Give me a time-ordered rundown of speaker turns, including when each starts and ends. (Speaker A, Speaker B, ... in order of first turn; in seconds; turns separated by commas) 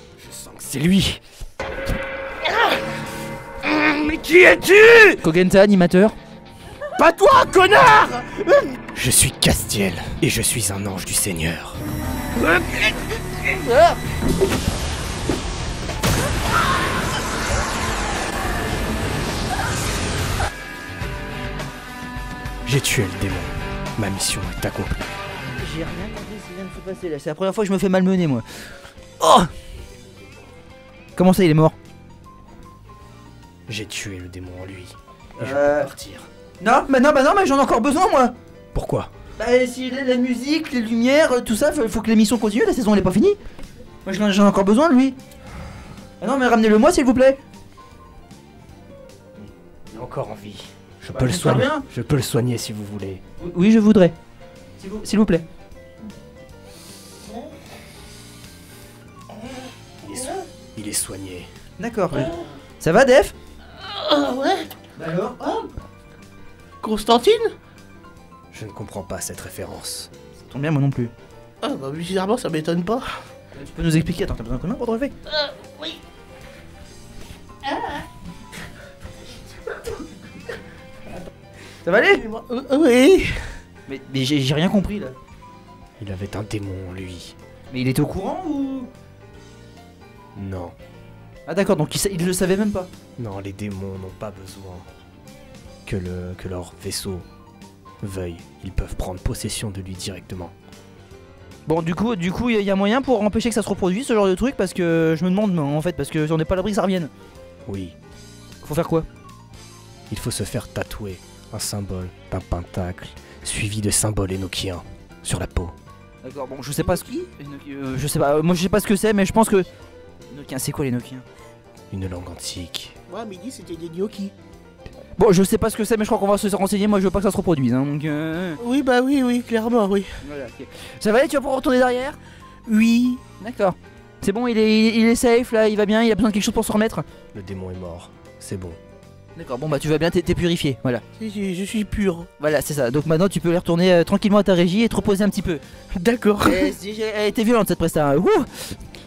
Speaker A: 0.2-1.2, Speaker A: 3.6-5.2, Speaker B: 5.2-6.2, Speaker C: 7.0-8.8, Speaker A: 7.5-8.1, Speaker A: 8.9-11.8, Speaker C: 12.4-13.0, Speaker B: 13.4-14.0, Speaker A: 22.6-25.0, Speaker B: 25.5-28.4, Speaker B: 29.2-29.5, Speaker B: 31.2-31.8, Speaker A: 33.7-36.3, Speaker B: 35.4-35.9, Speaker B: 36.6-38.3, Speaker A: 38.7-39.1, Speaker B: 39.4-43.4, Speaker B: 44.0-45.2, Speaker B: 46.2-47.4, Speaker A: 49.4-53.2, Speaker B: 51.1-51.9, Speaker B: 53.4-54.1, Speaker B: 54.8-55.5, Speaker A: 60.0-61.5, Speaker B: 61.8-63.3, Speaker C: 63.8-64.7, Speaker B: 65.0-65.7, Speaker C: 66.8-67.5, Speaker A: 68.5-70.1, Speaker B: 70.4-71.1, Speaker C: 71.6-73.2, Speaker B: 73.5-75.1, Speaker C: 75.3-76.0, Speaker C: 77.7-78.0, Speaker B: 81.8-82.2, Speaker C: 82.0-83.5, Speaker B: 83.9-85.2, Speaker A: 86.0-87.4, Speaker B: 87.7-88.9, Speaker A: 90.4-90.7, Speaker B: 91.5-92.9, Speaker A: 93.2-94.9, Speaker A: 95.9-97.3, Speaker A: 98.0-100.5, Speaker B: 101.7-107.1, Speaker A: 107.7-108.0, Speaker B: 108.6-109.1, Speaker A: 110.1-115.8, Speaker B: 116.2-119.7, Speaker C: 116.8-117.3, Speaker B: 120.3-121.2, Speaker A: 121.9-123.0, Speaker C: 123.1-124.3, Speaker B: 125.2-128.6, Speaker C: 128.6-130.2, Speaker B: 130.2-132.2, Speaker C: 132.7-133.2, Speaker B: 133.4-137.1, Speaker A: 137.3-138.8, Speaker B: 139.4-141.0, Speaker C: 141.2-142.3, Speaker B: 142.4-145.6, Speaker C: 146.0-146.8, Speaker B: 146.4-148.8